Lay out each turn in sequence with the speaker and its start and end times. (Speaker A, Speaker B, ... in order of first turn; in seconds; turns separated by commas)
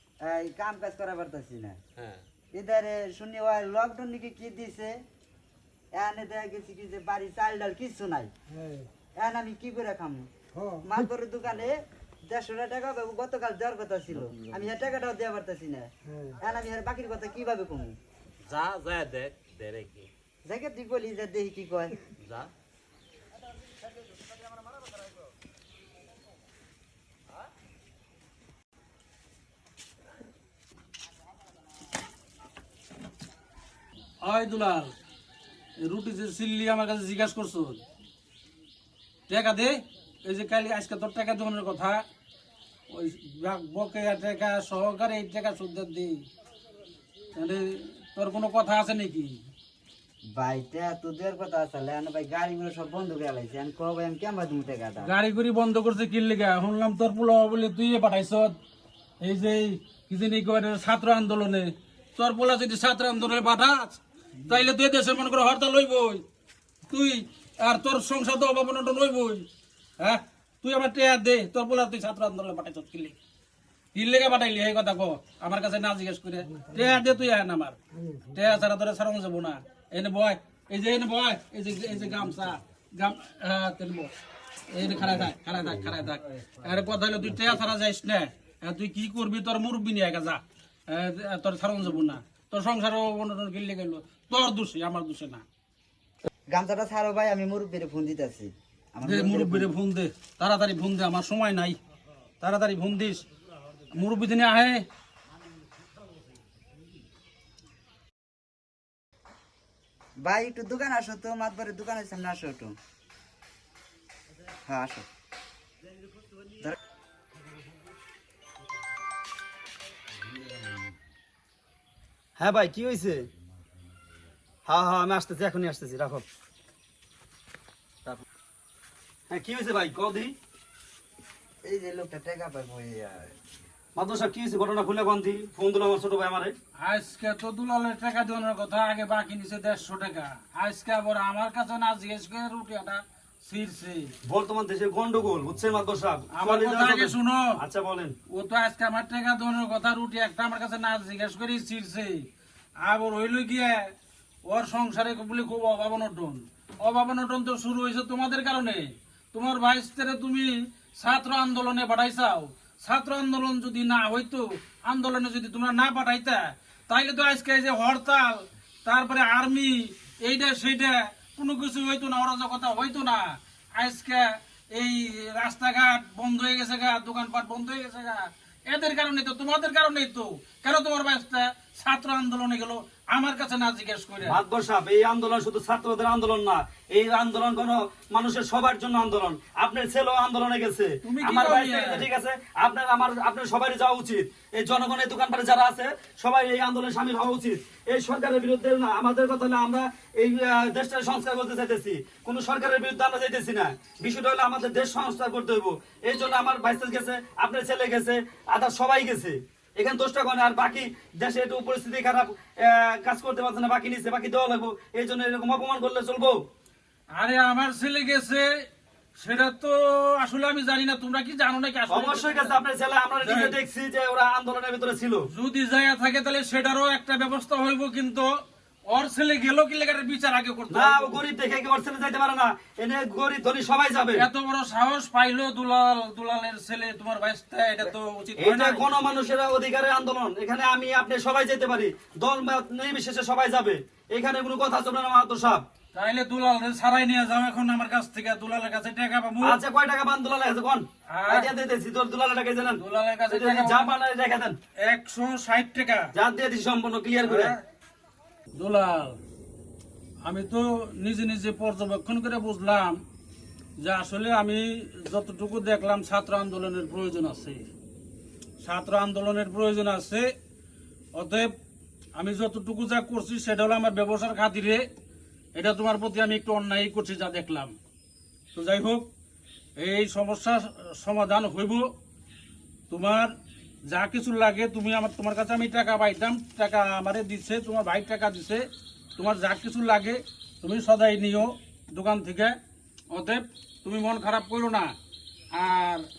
Speaker A: 0.2-1.8, Speaker B: 2.0-2.2, Speaker A: 2.5-5.0, Speaker A: 5.9-8.3, Speaker A: 9.2-17.9, Speaker B: 18.4-20.1, Speaker A: 20.5-22.0, Speaker B: 22.2-22.5, Speaker C: 34.2-34.9, Speaker C: 35.8-37.8, Speaker C: 39.3-42.0, Speaker C: 42.9-46.3, Speaker C: 47.4-49.4, Speaker A: 50.3-55.1, Speaker C: 55.0-58.6, Speaker C: 59.2-66.2, Speaker C: 66.9-69.5, Speaker C: 70.0-73.2, Speaker C: 73.9-77.8, Speaker C: 78.3-84.1, Speaker C: 84.7-95.5, Speaker A: 96.5-99.7, Speaker C: 99.0-101.8, Speaker C: 102.4-103.3, Speaker C: 103.9-104.9, Speaker A: 110.2-112.8, Speaker A: 114.6-115.1, Speaker D: 122.4-123.3, Speaker D: 124.7-126.2, Speaker D: 129.3-130.4, Speaker A: 131.6-133.3, Speaker D: 134.0-136.5, Speaker C: 136.8-144.1, Speaker D: 144.2-148.2, Speaker C: 146.3-147.6, Speaker C: 148.3-152.3, Speaker C: 152.8-153.9, Speaker C: 154.5-184.4, Speaker D: 184.2-216.4, Speaker C: 191.0-192.1, Speaker C: 217.1-218.5, Speaker C: 219.2-222.6, Speaker D: 221.9-225.2, Speaker C: 223.2-223.6, Speaker C: 225.3-228.3, Speaker C: 228.9-231.2, Speaker D: 230.7-234.2, Speaker C: 234.2-238.9, Speaker D: 238.4-245.6, Speaker C: 245.9-249.6, Speaker D: 249.4-254.6, Speaker C: 251.1-251.5, Speaker C: 252.8-253.9, Speaker C: 254.8-256.1, Speaker D: 256.1-257.6, Speaker C: 257.2-257.6, Speaker C: 258.6-259.2, Speaker C: 260.2-263.0, Speaker C: 263.8-267.7, Speaker C: 268.6-270.3, Speaker C: 271.1-271.5, Speaker C: 272.2-274.8, Speaker C: 275.6-277.7, Speaker C: 278.6-279.1, Speaker C: 279.8-281.9, Speaker C: 282.9-283.3, Speaker C: 283.9-288.6, Speaker C: 289.2-292.6, Speaker C: 293.1-294.9, Speaker C: 295.5-296.1